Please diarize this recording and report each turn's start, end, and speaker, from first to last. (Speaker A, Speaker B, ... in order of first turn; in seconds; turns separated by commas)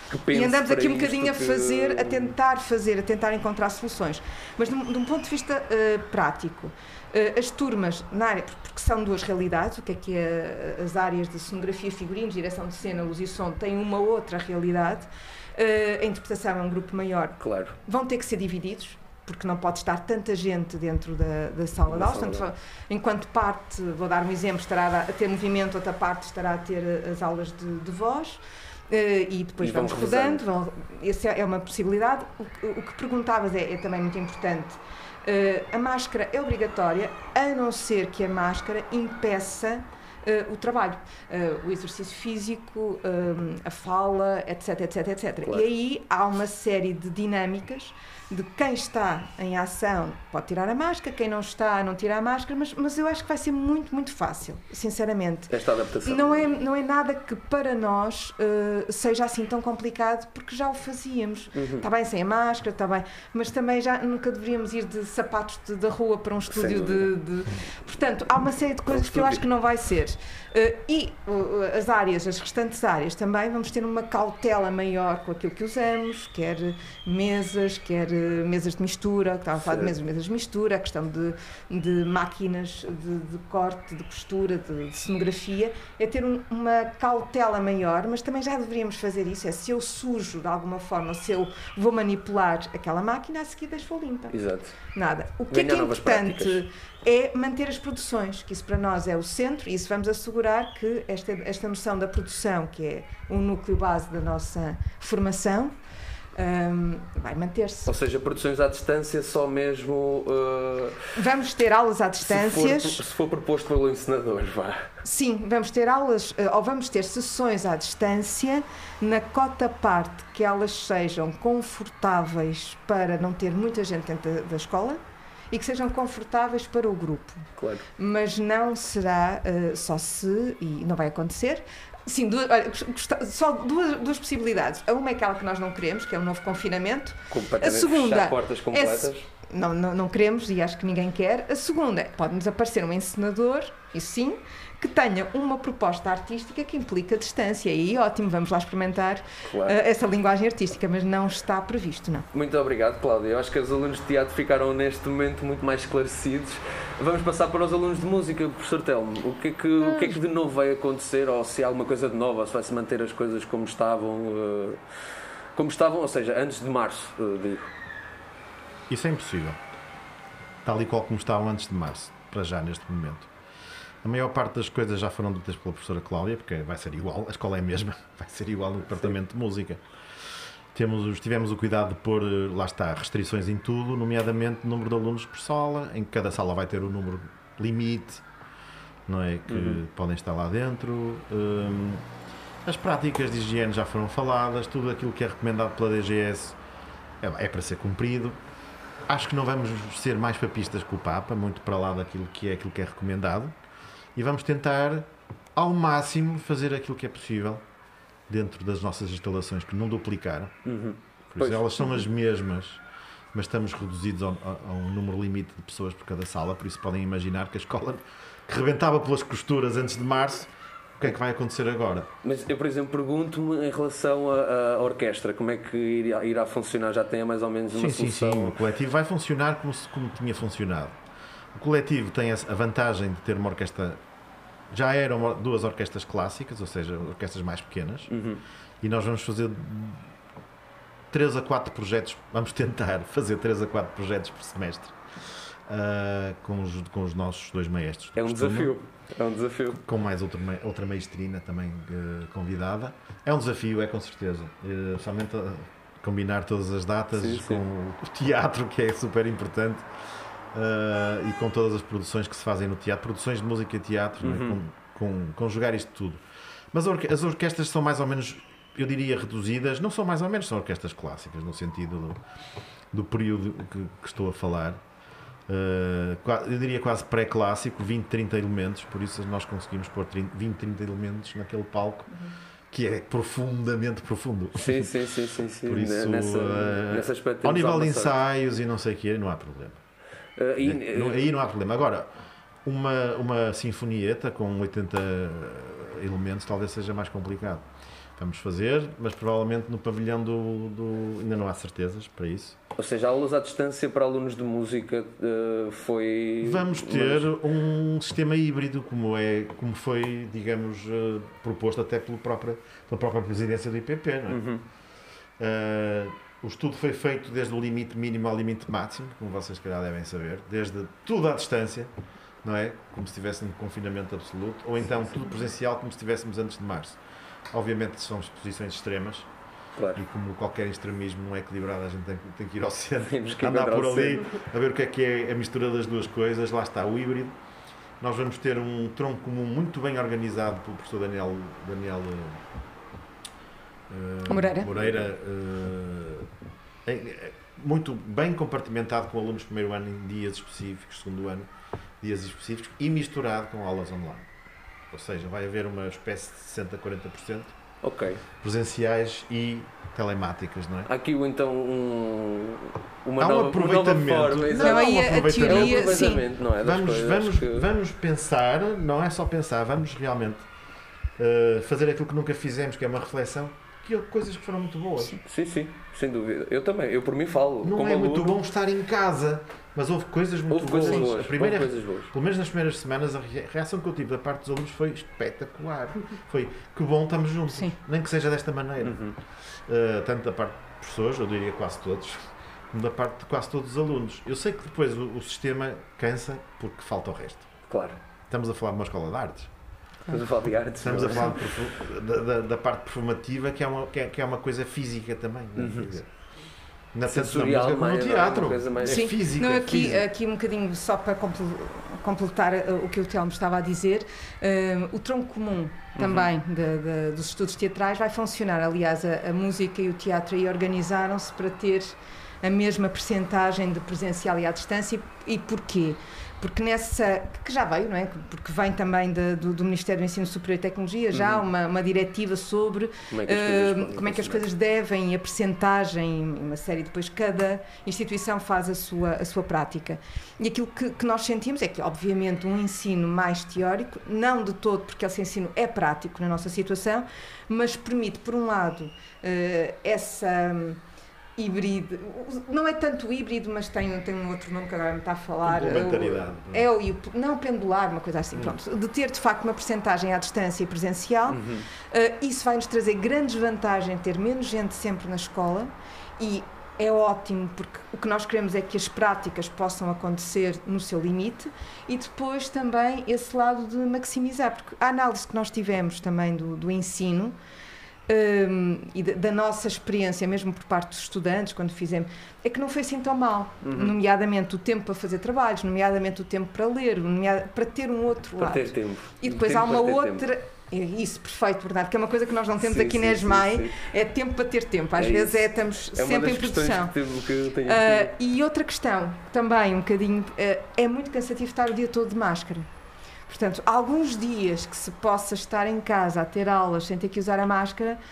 Speaker A: 0.1-2.3, Speaker B: 0.3-55.5, Speaker A: 17.4-17.8, Speaker A: 21.9-22.5, Speaker A: 29.6-30.4, Speaker A: 55.5-56.6, Speaker B: 56.1-94.3, Speaker A: 61.5-61.9, Speaker A: 66.5-67.1, Speaker A: 68.9-69.4, Speaker A: 79.6-80.0, Speaker A: 94.3-94.8, Speaker B: 94.9-105.7, Speaker A: 95.5-96.6, Speaker B: 106.4-107.9, Speaker A: 107.9-111.0, Speaker B: 111.2-113.0, Speaker A: 112.2-114.9, Speaker B: 115.0-125.0, Speaker B: 125.5-127.5, Speaker A: 127.6-127.8, Speaker B: 128.0-152.2, Speaker A: 137.3-139.2, Speaker A: 149.5-149.8, Speaker A: 152.3-164.8, Speaker A: 165.6-167.7, Speaker C: 168.9-169.6, Speaker C: 170.7-173.3, Speaker C: 174.0-179.8, Speaker C: 180.7-188.2, Speaker C: 189.1-192.1, Speaker A: 189.5-189.8, Speaker C: 192.7-196.6, Speaker C: 197.2-198.4, Speaker C: 199.1-203.6, Speaker C: 204.2-207.7, Speaker C: 208.3-210.6, Speaker A: 210.7-211.7, Speaker C: 211.3-212.8, Speaker C: 213.3-222.1, Speaker A: 222.2-228.6, Speaker C: 227.7-231.0, Speaker C: 231.5-234.0, Speaker C: 234.7-238.1, Speaker A: 238.1-238.4, Speaker C: 238.8-240.1, Speaker C: 241.1-245.0, Speaker C: 245.7-248.8, Speaker A: 248.2-249.8, Speaker C: 249.8-259.9, Speaker A: 257.1-257.6, Speaker C: 260.5-266.2, Speaker A: 264.2-264.6, Speaker C: 266.7-272.2, Speaker C: 272.9-274.8, Speaker C: 275.5-282.1, Speaker C: 282.7-284.9, Speaker A: 284.6-288.1, Speaker C: 285.7-289.8, Speaker A: 290.4-291.2, Speaker C: 290.6-292.1, Speaker C: 292.6-297.7, Speaker C: 298.2-302.6, Speaker A: 302.8-307.3, Speaker C: 306.4-314.4, Speaker A: 314.3-314.6, Speaker C: 315.4-321.9, Speaker C: 322.4-327.0, Speaker C: 327.5-329.3, Speaker A: 329.8-330.0, Speaker C: 330.0-337.4, Speaker A: 333.1-334.3, Speaker C: 338.0-342.4, Speaker C: 343.9-346.3, Speaker B: 344.3-344.7, Speaker C: 346.9-351.5, Speaker C: 352.0-354.3, Speaker C: 354.9-357.5, Speaker A: 357.8-358.2, Speaker C: 358.4-360.9, Speaker A: 360.9-367.7, Speaker C: 363.2-370.5, Speaker B: 364.6-366.2, Speaker C: 371.2-375.2, Speaker A: 375.2-378.4, Speaker C: 377.6-389.0, Speaker A: 380.5-382.1, Speaker A: 388.8-389.1, Speaker C: 389.7-397.5, Speaker A: 397.7-398.0, Speaker C: 398.3-399.5, Speaker A: 400.1-401.4, Speaker C: 400.8-406.1, Speaker A: 405.6-405.9, Speaker C: 406.9-410.1, Speaker A: 407.1-409.1, Speaker B: 408.9-450.8, Speaker A: 416.0-416.3, Speaker A: 431.1-431.5, Speaker A: 433.1-434.4, Speaker B: 451.4-477.4, Speaker C: 455.4-456.7, Speaker A: 461.3-461.6, Speaker B: 478.1-496.9, Speaker A: 483.6-483.9, Speaker A: 488.4-490.2, Speaker A: 492.6-493.7, Speaker A: 495.0-498.1, Speaker B: 497.6-502.7, Speaker B: 503.3-508.0